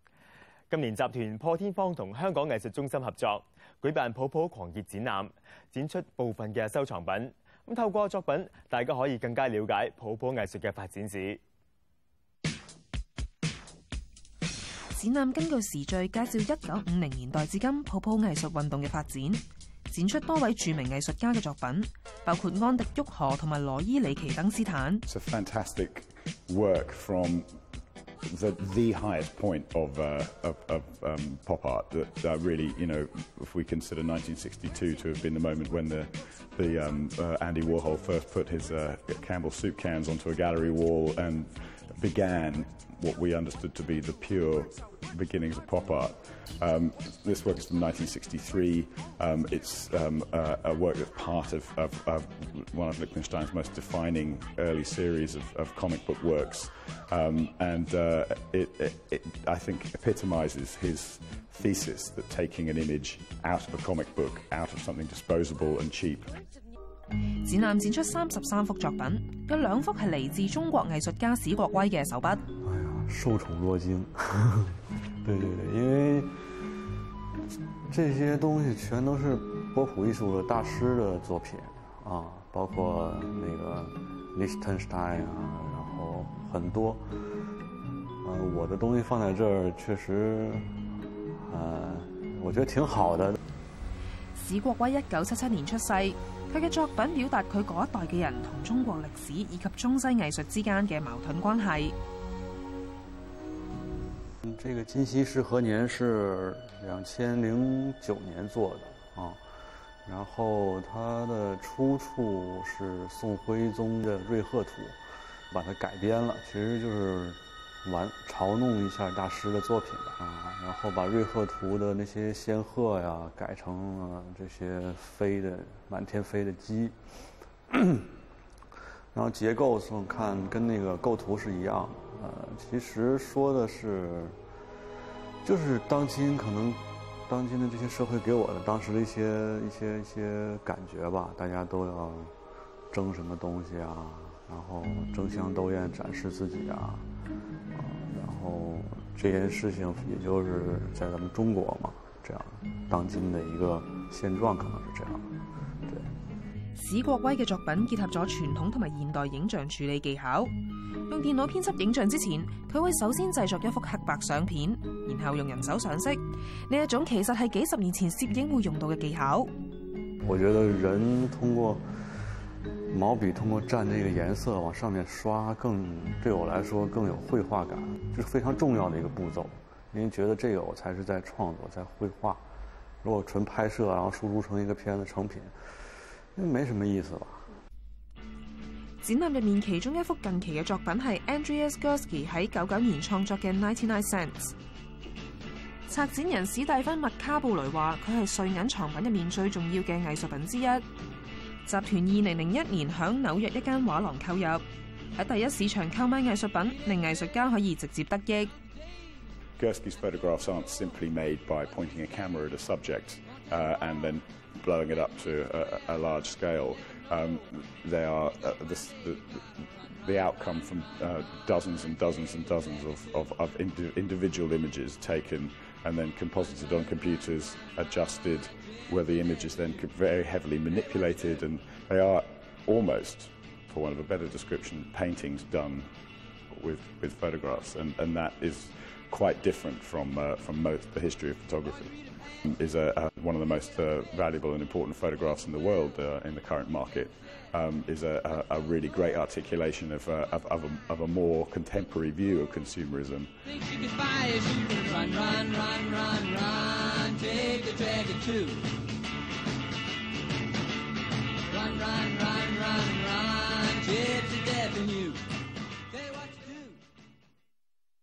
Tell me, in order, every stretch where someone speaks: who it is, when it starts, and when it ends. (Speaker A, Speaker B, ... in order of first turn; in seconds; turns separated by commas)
Speaker A: 0.7-11.4, Speaker B: 14.9-25.0, Speaker C: 25.1-27.5, Speaker C: 28.2-66.4, Speaker B: 67.4-72.5, Speaker D: 72.6-76.4, Speaker D: 77.9-87.1, Speaker D: 88.2-90.8, Speaker D: 91.4-93.4, Speaker B: 94.3-102.0, Speaker D: 104.5-109.4, Speaker D: 110.0-115.0, Speaker D: 115.5-127.0, Speaker D: 127.7-128.1, Speaker D: 129.1-134.4, Speaker D: 135.4-142.3, Speaker D: 142.9-147.1, Speaker D: 147.7-155.3, Speaker D: 155.9-156.1, Speaker B: 156.7-160.5, Speaker B: 161.1-169.5, Speaker D: 170.2-171.8, Speaker D: 172.9-182.4, Speaker D: 183.0-185.8, Speaker D: 186.3-187.6, Speaker B: 189.0-194.5, Speaker B: 195.9-200.8, Speaker B: 201.7-204.6, Speaker B: 205.2-208.5, Speaker C: 209.6-235.9, Speaker C: 236.5-253.3, Speaker E: 253.5-258.6, Speaker E: 261.5-265.2, Speaker E: 265.9-266.8